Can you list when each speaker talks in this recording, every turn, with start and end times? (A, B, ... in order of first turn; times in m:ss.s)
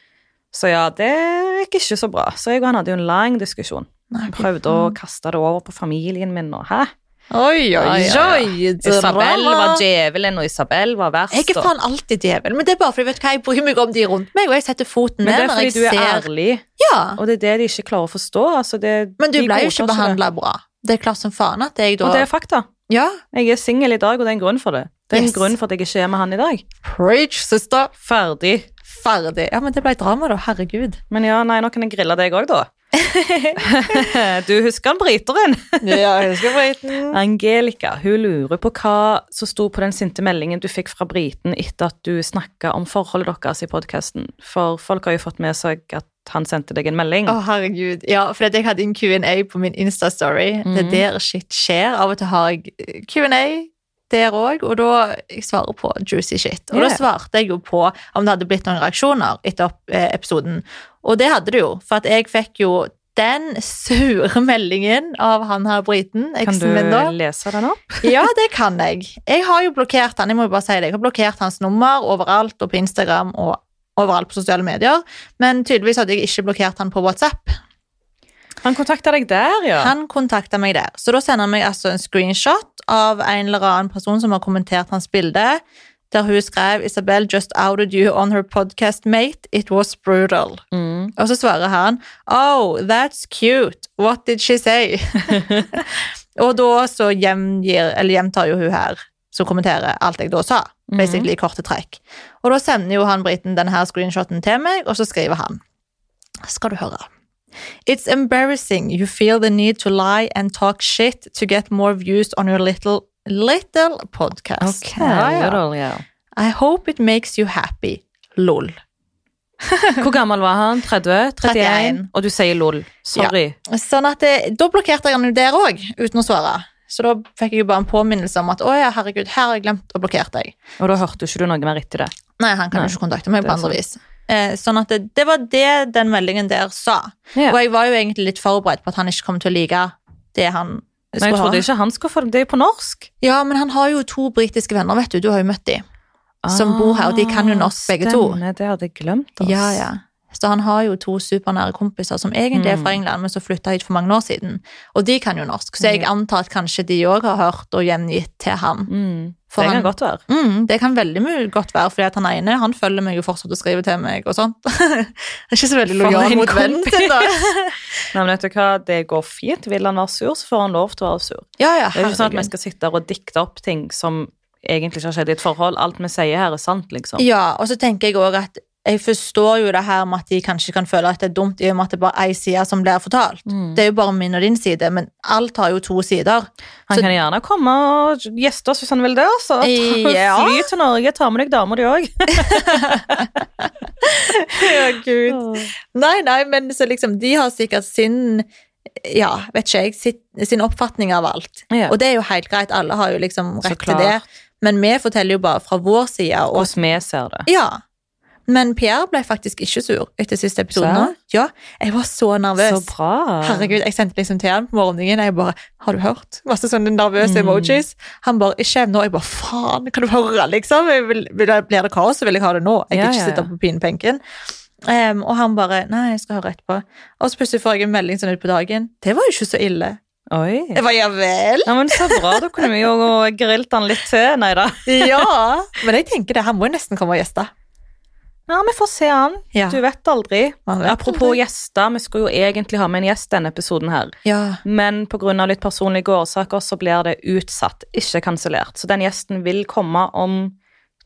0:00.5-0:06.9 A
0:04.1-0:05.0 B
0:07.3-0:09.8 B
0:07.8-0:11.7 A
0:11.3-0:16.3 B
0:15.2-0:16.6 A
0:16.8-0:17.2 B
0:17.2-0:20.2 A
0:19.2-0:22.3 B
0:22.0-0:22.7 A
0:22.9-0:23.2 B
0:23.3-0:26.6 A
0:25.1-0:25.5 B
0:26.8-0:27.9 B
0:28.0-0:28.7 A
0:28.8-0:31.0 B
0:31.1-0:32.7 A
0:32.9-0:34.1 B
0:33.6-0:36.3 A
0:35.8-0:37.2 B
0:37.1-0:47.4 A
0:47.3-1:07.1 B
0:50.6-0:51.0 A
0:56.7-0:57.0 A
1:06.4-1:08.2 A
1:08.0-1:17.6 B
1:18.6-1:19.9 A
1:19.8-1:30.6 B
1:30.7-1:31.1 A
1:31.2-1:45.6 B
1:35.3-1:35.7 A
1:40.9-1:41.3 A
1:46.4-1:47.1 B
1:47.8-1:55.6 B
1:54.6-1:56.0 A
1:56.4-1:58.8 B
1:59.6-2:00.0 B
2:00.0-2:03.6 A
2:01.4-2:02.1 B
2:03.1-2:10.6 B
2:10.8-2:12.1 A
2:12.4-2:21.6 B
2:12.7-2:13.8 A
2:21.2-2:23.1 A
2:23.2-2:25.8 B
2:26.4-2:29.8 A
2:26.5-2:28.4 B
2:29.4-2:38.9 B
2:32.5-2:33.0 A
2:35.8-2:36.1 A
2:38.9-2:40.2 A
2:39.5-2:47.8 B
2:45.9-2:47.3 A
2:48.1-2:57.2 A
2:51.6-2:52.5 B
2:57.2-3:07.1 B
3:03.5-3:03.8 A
3:06.9-3:13.2 A
3:09.6-3:10.7 B
3:12.4-3:18.4 B
3:15.3-3:15.7 A
3:19.0-3:26.7 B
3:21.7-3:21.9 A
3:23.6-3:24.2 A
3:26.5-3:27.5 A
3:27.5-3:27.8 B
3:28.5-3:32.9 B
3:30.7-3:31.1 A
3:32.6-3:33.8 A
3:33.4-3:44.2 B
3:37.2-3:37.8 A
3:42.9-3:43.5 A
3:44.8-3:50.0 B
3:50.3-3:50.8 A
3:50.7-3:52.6 B
3:51.6-3:55.3 A
3:54.8-3:57.5 B
3:58.5-4:10.6 A
3:59.5-3:59.8 B
4:00.7-4:01.4 B
4:04.2-4:04.6 B